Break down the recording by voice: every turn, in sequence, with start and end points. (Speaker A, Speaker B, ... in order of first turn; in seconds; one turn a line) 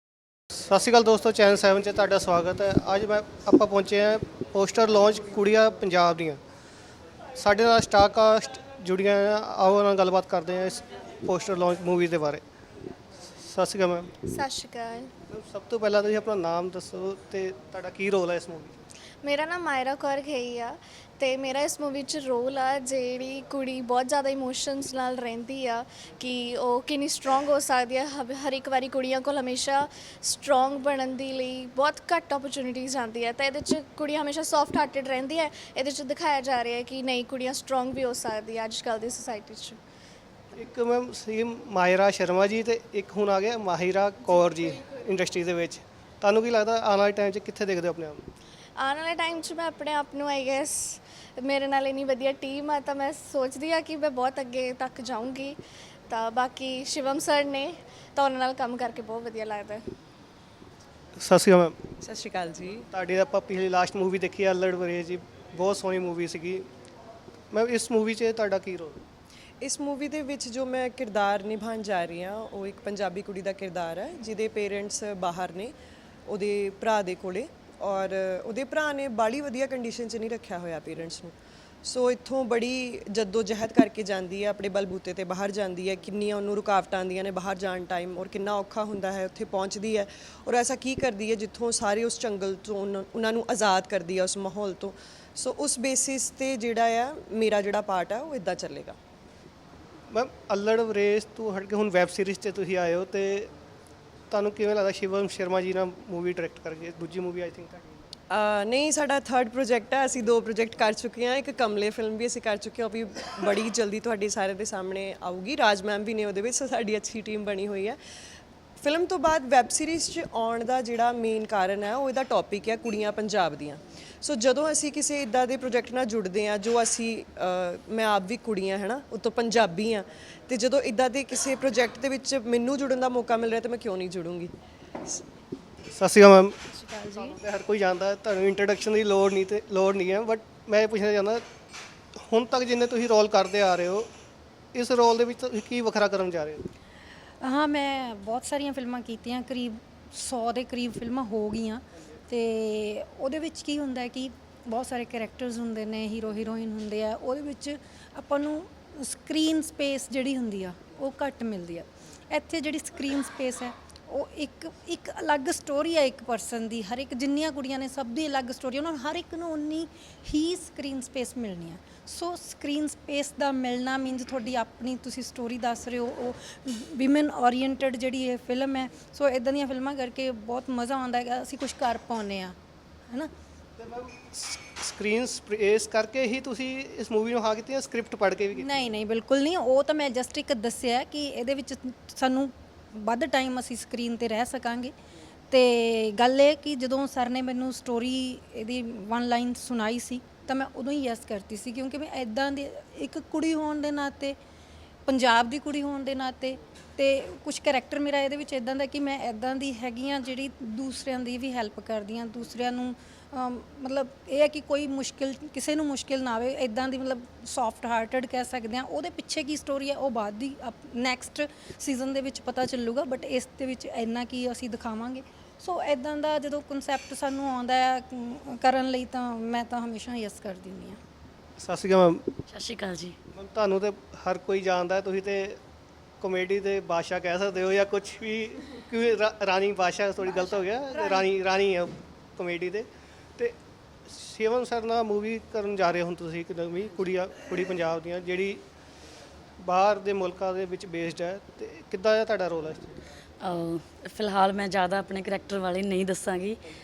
Speaker A: 0.5-6.4
Speaker A: 7.4-12.4
Speaker A: 13.4-14.1
Speaker B: 14.3-15.1
Speaker A: 15.3-18.7
Speaker B: 19.2-39.8
Speaker A: 40.5-48.3
Speaker B: 48.8-55.6
Speaker B: 56.1-59.8
Speaker A: 61.2-61.8
Speaker C: 62.0-62.8
Speaker A: 62.9-66.6
Speaker A: 67.5-69.0
Speaker C: 69.6-75.7
Speaker C: 76.3-81.3
Speaker C: 81.8-98.9
Speaker A: 100.1-103.5
Speaker A: 104.3-107.8
Speaker C: 108.3-118.0
Speaker C: 118.8-134.5
Speaker A: 135.9-141.4
Speaker D: 136.8-137.3
Speaker A: 142.3-144.1
Speaker A: 144.7-146.6
Speaker D: 147.4-182.5
Speaker A: 183.8-188.7
Speaker D: 188.6-194.9
Speaker D: 195.5-204.4
Speaker D: 205.1-231.0
Speaker A: 231.6-232.3
Speaker E: 232.5-233.2
Speaker A: 233.3-235.6
Speaker A: 236.2-242.9
Speaker D: 240.2-241.2
Speaker A: 244.1-248.6
Speaker A: 249.6-253.0
Speaker E: 253.4-256.6